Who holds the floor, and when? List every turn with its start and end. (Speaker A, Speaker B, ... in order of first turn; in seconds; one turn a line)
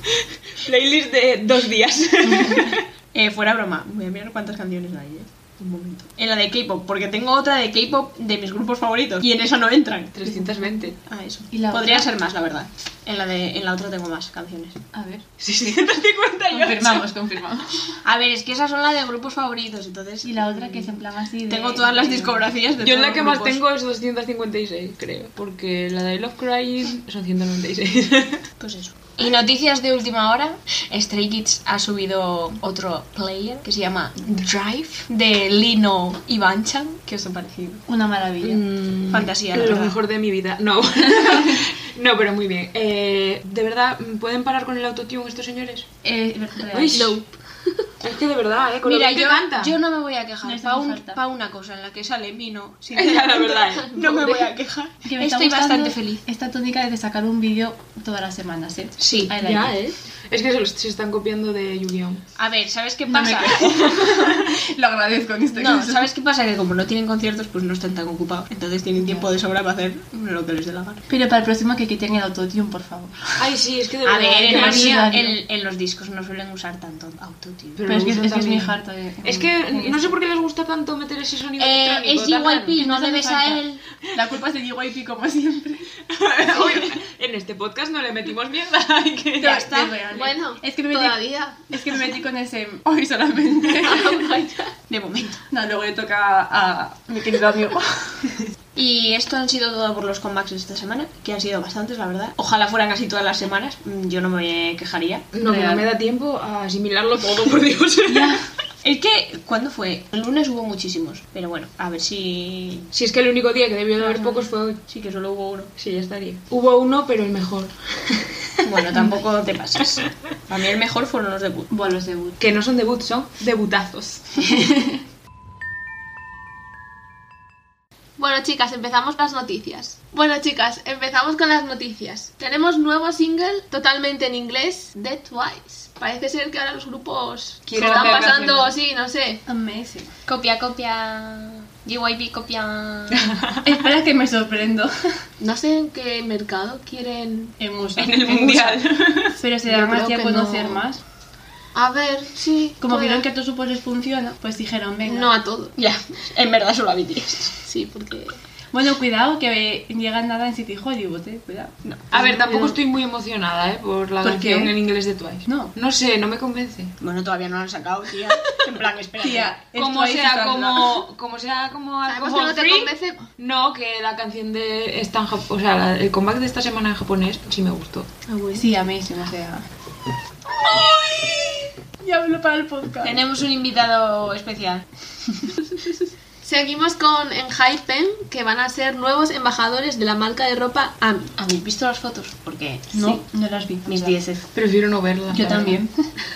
Speaker A: 0.2-2.9
Speaker B: 2.4-2.7
Speaker C: 3.1-10.2
Speaker A: 10.1-11.0
Speaker C: 11.1-14.8
Speaker B: 11.5-12.1
Speaker B: 14.9-15.8
Speaker A: 15.4-17.1
Speaker B: 16.5-18.0
Speaker C: 18.0-23.6
Speaker B: 20.2-22.5
Speaker A: 22.8-28.4
Speaker C: 28.6-37.8
Speaker B: 37.9-38.6
Speaker A: 38.4-45.9
Speaker C: 39.1-40.0
Speaker B: 41.2-41.6
Speaker B: 46.0-47.1
Speaker A: 46.7-47.1
Speaker D: 46.9-47.9
Speaker A: 48.0-49.8
Speaker C: 48.8-56.2
Speaker B: 50.4-51.2
Speaker A: 52.9-54.0
Speaker D: 53.6-54.5
Speaker B: 55.0-59.8
Speaker C: 59.0-59.3
Speaker A: 59.3-62.2
Speaker C: 62.4-64.1
Speaker B: 63.1-66.1
Speaker C: 65.5-71.0
Speaker B: 69.0-69.3
Speaker B: 71.1-73.4
Speaker A: 73.4-75.0
Speaker C: 74.0-77.8
Speaker B: 74.4-75.4
Speaker A: 77.8-82.8
Speaker B: 77.9-80.1
Speaker C: 81.6-83.8
Speaker B: 82.8-85.9
Speaker A: 86.1-89.7
Speaker C: 86.5-86.9
Speaker C: 89.4-90.0
Speaker B: 89.4-94.4
Speaker D: 90.1-91.6
Speaker D: 93.8-94.7
Speaker C: 94.9-95.4
Speaker B: 95.5-98.3
Speaker C: 98.8-105.3
Speaker A: 105.3-108.4
Speaker B: 105.4-105.9
Speaker B: 108.1-108.4
Speaker C: 108.8-112.9
Speaker A: 112.9-114.8
Speaker C: 114.9-115.7
Speaker A: 115.8-118.3
Speaker C: 118.6-121.7
Speaker B: 121.7-122.4
Speaker A: 122.4-124.5
Speaker B: 124.4-125.0
Speaker D: 128.2-139.4
Speaker A: 137.7-138.8
Speaker B: 137.8-138.3
Speaker B: 139.5-140.1
Speaker C: 140.3-143.3
Speaker B: 143.6-144.9
Speaker D: 145.4-147.6
Speaker B: 147.6-151.0
Speaker A: 148.0-149.4
Speaker D: 149.7-150.8
Speaker D: 151.7-153.2
Speaker B: 152.8-155.3
Speaker D: 155.1-155.8
Speaker C: 155.8-157.6
Speaker D: 157.7-158.4
Speaker B: 158.7-162.8
Speaker C: 161.8-162.1
Speaker A: 162.1-166.9
Speaker B: 164.2-164.8
Speaker B: 165.5-165.7
Speaker C: 167.0-169.6
Speaker B: 169.2-171.0
Speaker A: 169.8-178.1
Speaker D: 172.1-173.2
Speaker D: 178.3-178.7
Speaker B: 178.6-179.7
Speaker B: 180.6-183.2
Speaker C: 183.0-184.9
Speaker D: 185.8-191.3
Speaker C: 191.4-193.2
Speaker B: 192.9-194.2
Speaker C: 193.9-194.5
Speaker A: 194.6-195.8
Speaker B: 195.3-196.1